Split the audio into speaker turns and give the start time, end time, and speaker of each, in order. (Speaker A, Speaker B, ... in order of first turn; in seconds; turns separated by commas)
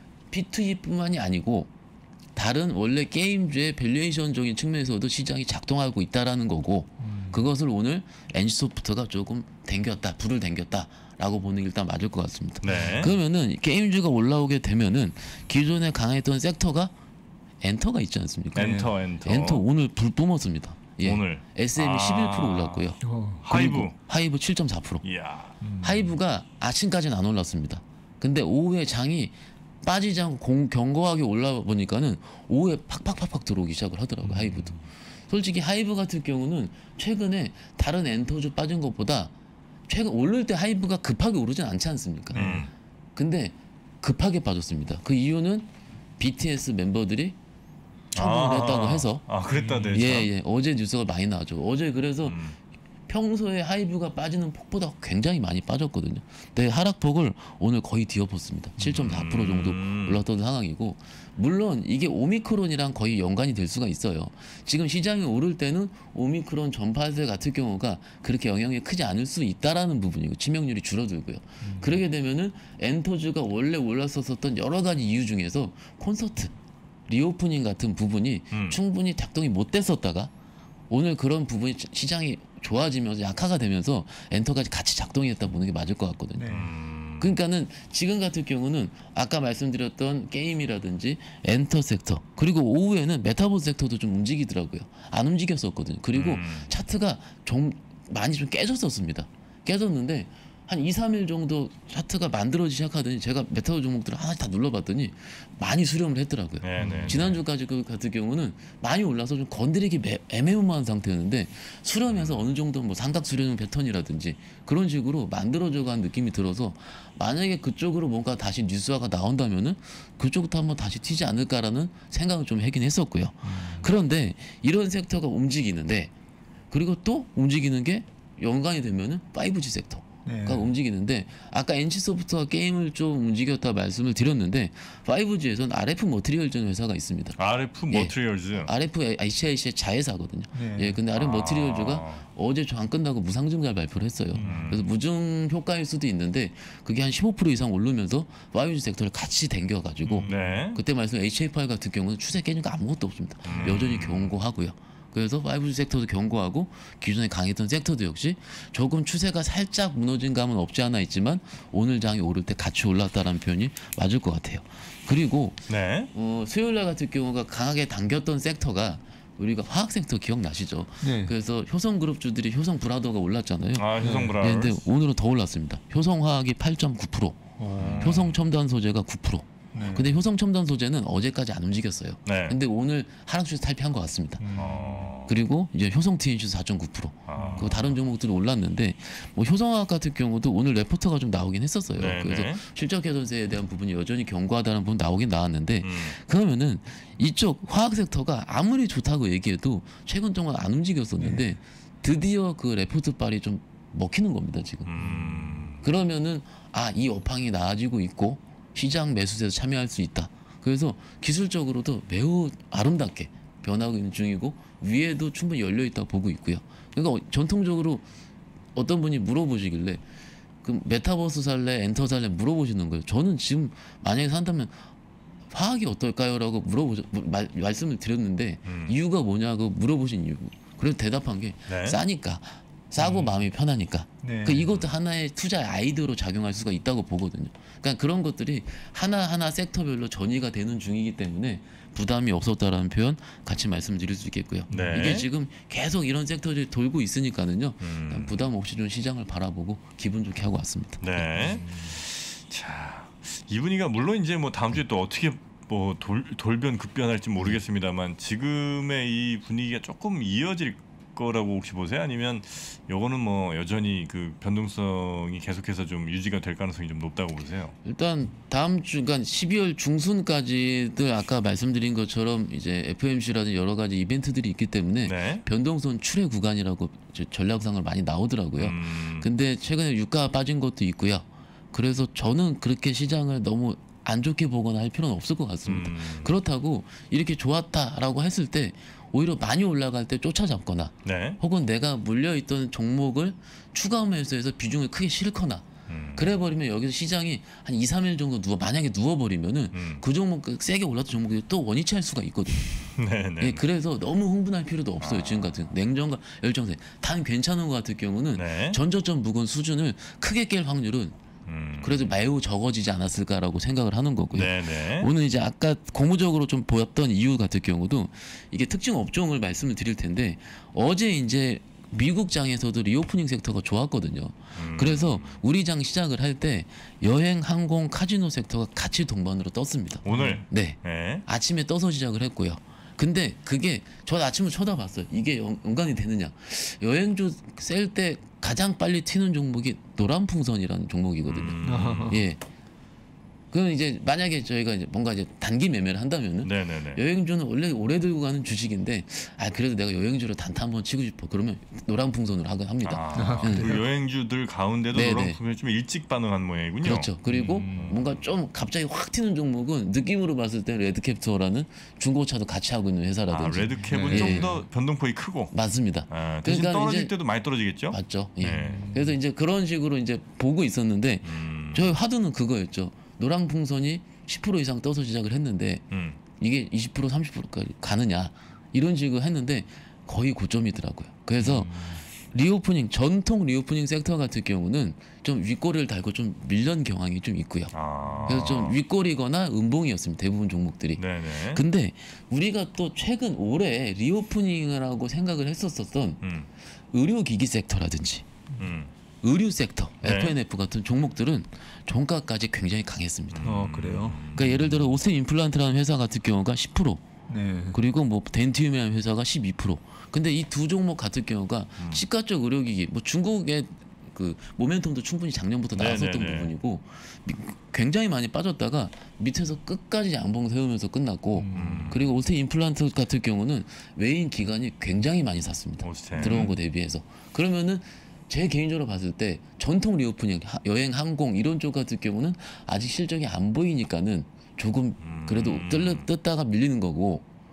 Speaker A: 0.3-1.7, Speaker A: 2.3-16.9, Speaker B: 7.0-7.5, Speaker C: 12.6-13.2, Speaker A: 17.6-25.0, Speaker B: 18.5-18.9, Speaker C: 18.5-19.6, Speaker C: 21.0-22.9, Speaker B: 23.0-23.4, Speaker C: 23.4-23.9, Speaker C: 25.0-25.6, Speaker B: 25.6-26.1, Speaker A: 25.8-34.7, Speaker B: 34.2-34.6, Speaker A: 35.3-39.3, Speaker A: 39.9-42.4, Speaker B: 42.3-42.7, Speaker C: 42.3-42.7, Speaker A: 43.1-47.4, Speaker C: 48.1-50.3, Speaker A: 48.1-49.2, Speaker B: 49.5-50.1, Speaker A: 49.9-52.4, Speaker C: 52.2-52.6, Speaker A: 53.1-76.5, Speaker C: 58.9-60.2, Speaker B: 71.6-72.0, Speaker A: 77.1-80.3, Speaker A: 80.9-86.6, Speaker B: 86.3-86.7, Speaker C: 86.5-87.4, Speaker A: 87.2-126.1, Speaker C: 96.1-96.7, Speaker C: 106.6-107.4, Speaker B: 106.8-107.3, Speaker C: 112.1-112.4, Speaker B: 123.4-123.9, Speaker A: 126.7-137.4, Speaker B: 130.2-130.7, Speaker C: 137.4-138.7, Speaker A: 137.9-184.6, Speaker B: 140.5-141.0, Speaker C: 141.1-142.2, Speaker B: 144.3-144.8, Speaker C: 144.4-144.8, Speaker C: 150.1-150.8, Speaker B: 150.2-150.7, Speaker C: 153.4-154.3, Speaker B: 153.5-153.8, Speaker C: 165.7-166.1, Speaker B: 171.0-171.3, Speaker C: 173.7-174.9, Speaker B: 174.0-174.4, Speaker B: 177.6-178.3, Speaker C: 177.8-178.3, Speaker B: 179.7-180.2, Speaker C: 182.2-182.6, Speaker B: 184.4-185.1, Speaker C: 184.6-185.3, Speaker A: 185.2-204.9, Speaker C: 187.2-188.0, Speaker B: 187.3-187.7, Speaker C: 191.9-192.6, Speaker C: 195.8-196.2, Speaker B: 201.2-201.6, Speaker C: 204.8-205.8, Speaker B: 205.0-205.7, Speaker A: 205.8-218.0, Speaker A: 218.7-220.0, Speaker A: 220.6-224.8, Speaker A: 225.5-251.6, Speaker C: 228.6-228.9, Speaker C: 231.7-232.0, Speaker B: 233.0-233.3, Speaker B: 234.2-234.8, Speaker B: 244.7-245.1, Speaker C: 244.7-245.3, Speaker C: 247.8-248.3, Speaker C: 251.0-267.8, Speaker B: 251.4-251.9, Speaker A: 267.8-302.9, Speaker C: 275.0-275.4, Speaker C: 278.6-279.3, Speaker C: 285.7-286.3, Speaker C: 291.0-291.4, Speaker C: 295.9-296.3, Speaker C: 299.7-300.0, Speaker C: 302.9-303.6, Speaker A: 303.4-311.1, Speaker C: 305.0-305.7, Speaker C: 308.3-308.8, Speaker C: 311.4-312.1, Speaker A: 311.8-342.4, Speaker C: 314.3-315.1, Speaker C: 324.6-325.4, Speaker C: 330.0-331.2, Speaker B: 330.1-330.4, Speaker C: 341.2-342.2, Speaker B: 341.6-342.2, Speaker A: 343.5-353.7, Speaker C: 346.4-347.0, Speaker C: 352.8-358.2, Speaker B: 353.1-353.8, Speaker A: 354.9-355.4, Speaker A: 356.8-364.6, Speaker B: 357.3-358.0, Speaker C: 363.3-365.5, Speaker B: 363.8-364.6, Speaker A: 365.5-367.1, Speaker C: 366.1-368.9, Speaker A: 367.9-375.8, Speaker B: 368.6-369.2, Speaker C: 371.2-371.9, Speaker C: 375.9-376.2, Speaker A: 376.4-387.7, Speaker C: 381.4-381.7, Speaker B: 381.5-381.9, Speaker C: 387.7-388.8, Speaker B: 388.0-388.4, Speaker A: 388.2-396.2, Speaker C: 391.0-391.6, Speaker C: 396.2-396.5, Speaker A: 396.9-398.3, Speaker C: 398.6-398.9, Speaker A: 399.2-403.6, Speaker C: 400.0-400.4, Speaker C: 403.3-404.9, Speaker B: 403.4-404.2, Speaker A: 404.3-407.0, Speaker B: 407.3-407.8, Speaker A: 407.7-437.2, Speaker C: 415.7-416.5, Speaker B: 421.3-422.0, Speaker C: 421.5-422.0, Speaker C: 425.8-426.5, Speaker B: 426.1-426.5, Speaker C: 435.0-436.1